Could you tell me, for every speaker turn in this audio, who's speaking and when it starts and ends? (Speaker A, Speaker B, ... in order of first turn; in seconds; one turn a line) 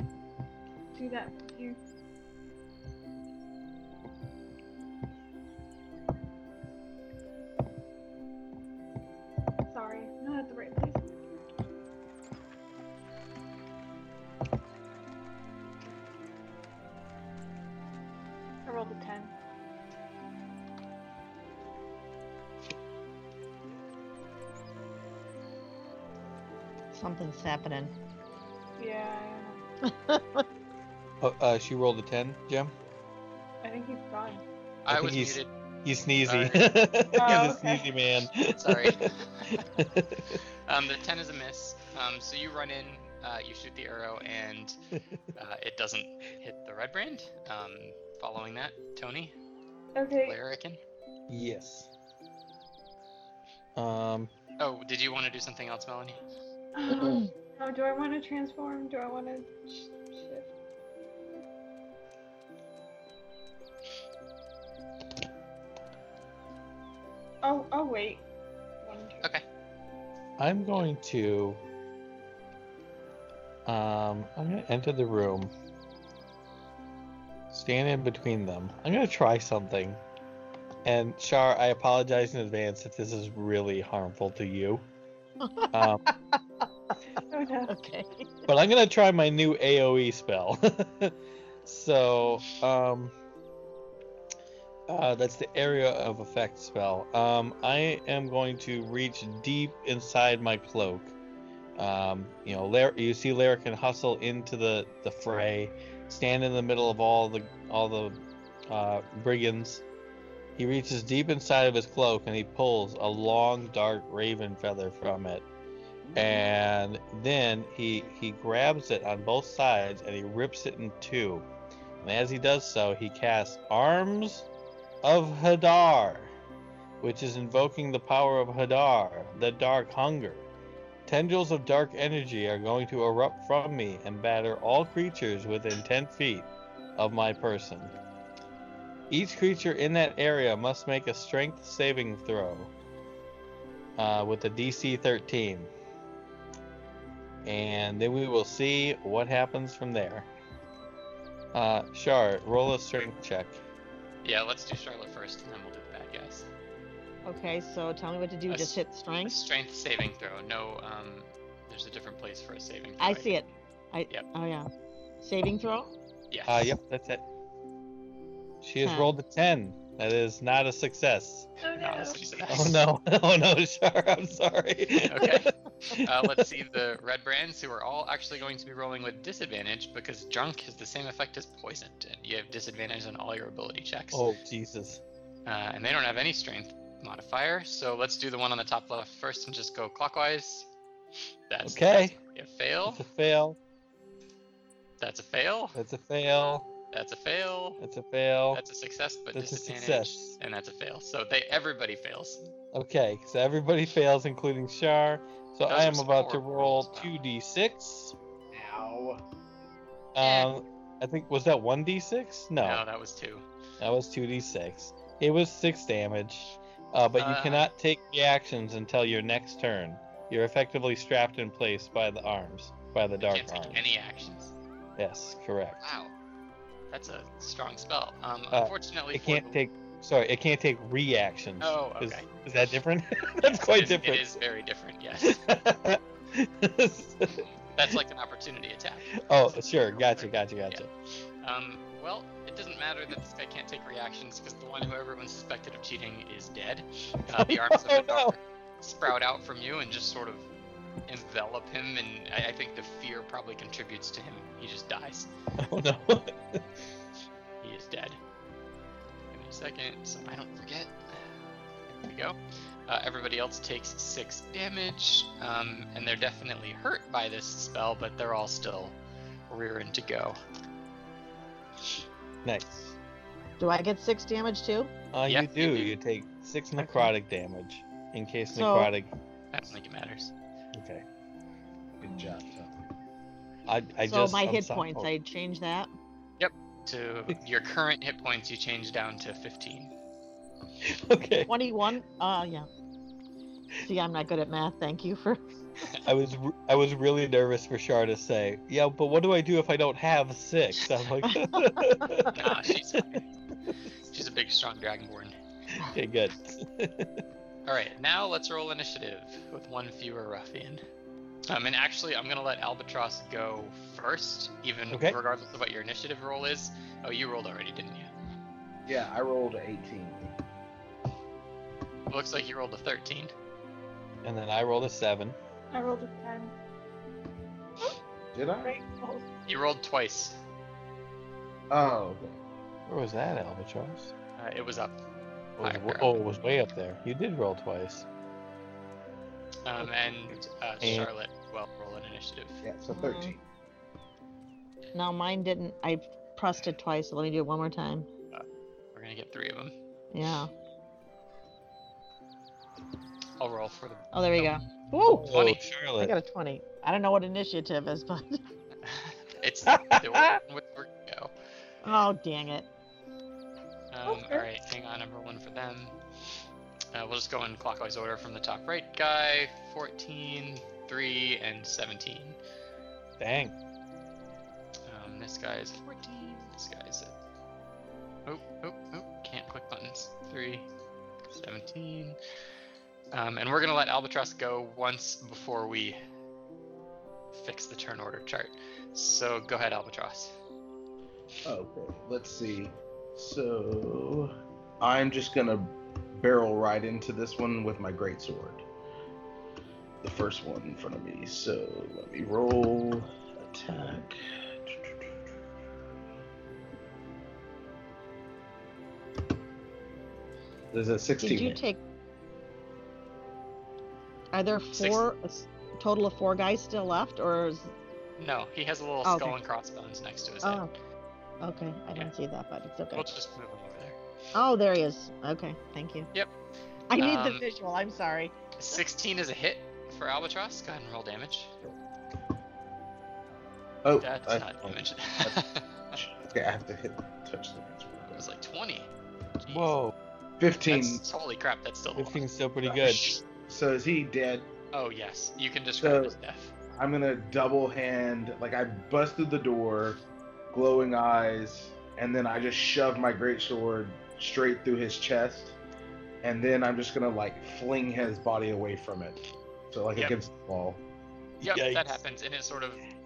Speaker A: 0.9-1.8
Speaker A: 9.7-11.5
Speaker A: 18.7-19.3
Speaker B: 26.9-27.9
Speaker A: 28.8-29.6
Speaker B: 29.9-30.4
Speaker C: 31.2-32.7
Speaker A: 33.6-34.4
Speaker D: 34.9-35.5
Speaker C: 34.9-40.4
Speaker D: 36.2-36.7
Speaker A: 37.2-37.9
Speaker D: 38.5-39.6
Speaker D: 40.3-44.8
Speaker D: 45.3-49.4
Speaker A: 50.0-50.4
Speaker D: 50.2-50.8
Speaker C: 51.3-51.9
Speaker C: 53.8-54.3
Speaker D: 54.6-56.2
Speaker A: 56.8-60.5
Speaker A: 67.4-68.2
Speaker A: 68.8-69.3
Speaker C: 70.4-71.6
Speaker C: 73.7-75.5
Speaker C: 77.5-80.0
Speaker C: 80.8-84.8
Speaker B: 85.4-86.7
Speaker C: 85.7-86.0
Speaker A: 87.3-87.7
Speaker B: 87.7-88.5
Speaker C: 88.5-93.1
Speaker C: 94.9-101.2
Speaker C: 101.8-108.2
Speaker C: 108.7-109.8
Speaker C: 110.6-115.5
Speaker C: 116.2-121.5
Speaker C: 122.0-124.5
Speaker C: 125.0-126.3
Speaker C: 127.0-130.5
Speaker C: 131.1-137.9
Speaker C: 139.1-142.7
Speaker C: 144.0-145.7
Speaker C: 147.4-150.3
Speaker C: 151.5-153.6
Speaker D: 154.2-156.5
Speaker B: 157.2-159.4
Speaker D: 158.5-163.3
Speaker B: 163.0-164.7
Speaker B: 165.2-165.9
Speaker D: 166.3-166.8
Speaker C: 166.5-167.2
Speaker C: 168.6-171.5
Speaker B: 168.8-169.1
Speaker A: 171.6-172.5
Speaker D: 171.8-172.8
Speaker C: 172.5-175.4
Speaker D: 175.0-184.3
Speaker C: 176.0-176.5
Speaker C: 184.1-185.0
Speaker D: 185.5-190.7
Speaker D: 191.5-193.1
Speaker C: 191.6-192.2
Speaker C: 192.9-193.6
Speaker D: 195.0-195.8
Speaker C: 195.8-196.7
Speaker D: 196.9-197.8
Speaker C: 197.8-198.6
Speaker D: 198.5-202.5
Speaker C: 199.3-200.4
Speaker C: 202.7-208.2
Speaker D: 205.7-207.2
Speaker E: 208.5-209.2
Speaker C: 210.2-212.8
Speaker D: 210.2-210.5
Speaker D: 212.6-213.4
Speaker C: 213.8-223.8
Speaker D: 217.2-217.7
Speaker D: 223.2-224.6
Speaker C: 225.0-225.8
Speaker D: 225.8-226.1
Speaker D: 226.9-229.6
Speaker C: 228.5-234.4
Speaker D: 231.6-232.3
Speaker D: 233.4-235.4
Speaker C: 235.2-237.5
Speaker D: 237.7-240.8
Speaker C: 239.2-240.9
Speaker D: 241.4-250.5
Speaker C: 247.3-248.4
Speaker D: 251.1-255.3
Speaker C: 255.6-256.7
Speaker D: 257.6-258.2
Speaker D: 259.3-261.0
Speaker D: 261.9-269.0
Speaker D: 269.5-270.4
Speaker C: 272.4-273.0
Speaker B: 273.6-274.9
Speaker C: 275.1-279.1
Speaker D: 275.3-275.9
Speaker B: 276.8-277.1
Speaker B: 278.5-278.9
Speaker D: 279.5-280.3
Speaker C: 280.7-281.0
Speaker E: 282.0-282.8
Speaker C: 283.7-285.1
Speaker B: 284.1-285.9
Speaker D: 286.4-289.9
Speaker C: 290.8-291.5
Speaker B: 291.5-292.7
Speaker B: 293.8-295.4
Speaker C: 296.1-303.0
Speaker B: 301.3-302.3
Speaker D: 302.3-303.3
Speaker D: 304.1-305.4
Speaker C: 305.8-307.2
Speaker D: 307.7-310.8
Speaker D: 311.5-318.1
Speaker C: 314.9-315.2
Speaker E: 318.9-320.4
Speaker D: 322.1-323.3
Speaker C: 324.2-325.4
Speaker A: 325.7-326.6
Speaker E: 328.3-328.8
Speaker B: 328.8-329.2
Speaker D: 329.5-330.4
Speaker E: 331.7-332.4
Speaker C: 332.9-334.1
Speaker D: 334.4-335.0
Speaker C: 335.6-338.1
Speaker D: 335.6-336.2
Speaker D: 339.6-342.6
Speaker C: 340.8-341.1
Speaker E: 342.6-343.4
Speaker B: 342.9-343.4
Speaker B: 344.9-348.1
Speaker D: 348.3-349.8
Speaker B: 350.1-350.5
Speaker D: 353.4-354.6
Speaker B: 354.1-355.3
Speaker C: 355.0-356.1
Speaker D: 355.3-355.6
Speaker B: 356.0-358.4
Speaker D: 358.8-361.3
Speaker C: 359.7-360.4
Speaker B: 361.8-362.7
Speaker D: 363.9-366.0
Speaker A: 364.1-364.5
Speaker D: 366.9-372.4
Speaker C: 373.2-373.6
Speaker D: 374.9-377.2
Speaker D: 378.3-380.7
Speaker D: 381.3-382.2
Speaker D: 383.1-386.0
Speaker D: 387.3-390.4
Speaker E: 391.4-398.6
Speaker E: 400.0-404.9
Speaker E: 410.7-411.6
Speaker B: 411.2-411.8
Speaker B: 414.3-417.7
Speaker D: 414.7-415.1
Speaker D: 418.2-420.6
Speaker B: 419.0-419.4
Speaker B: 420.4-420.7
Speaker B: 421.4-423.1
Speaker D: 422.9-424.0
Speaker B: 424.4-426.1
Speaker B: 426.9-428.3
Speaker D: 426.9-427.4
Speaker D: 428.6-431.5
Speaker E: 433.8-435.4
Speaker D: 434.0-436.0
Speaker E: 435.9-438.3
Speaker D: 438.1-438.9
Speaker D: 439.4-439.8
Speaker C: 439.5-439.9
Speaker E: 440.4-441.0
Speaker D: 440.7-442.2
Speaker C: 442.0-443.0
Speaker E: 442.7-444.5
Speaker D: 444.7-446.5
Speaker E: 445.8-446.1
Speaker E: 446.7-450.0
Speaker E: 450.5-455.6
Speaker E: 456.2-460.8
Speaker C: 461.4-462.0
Speaker D: 461.4-462.8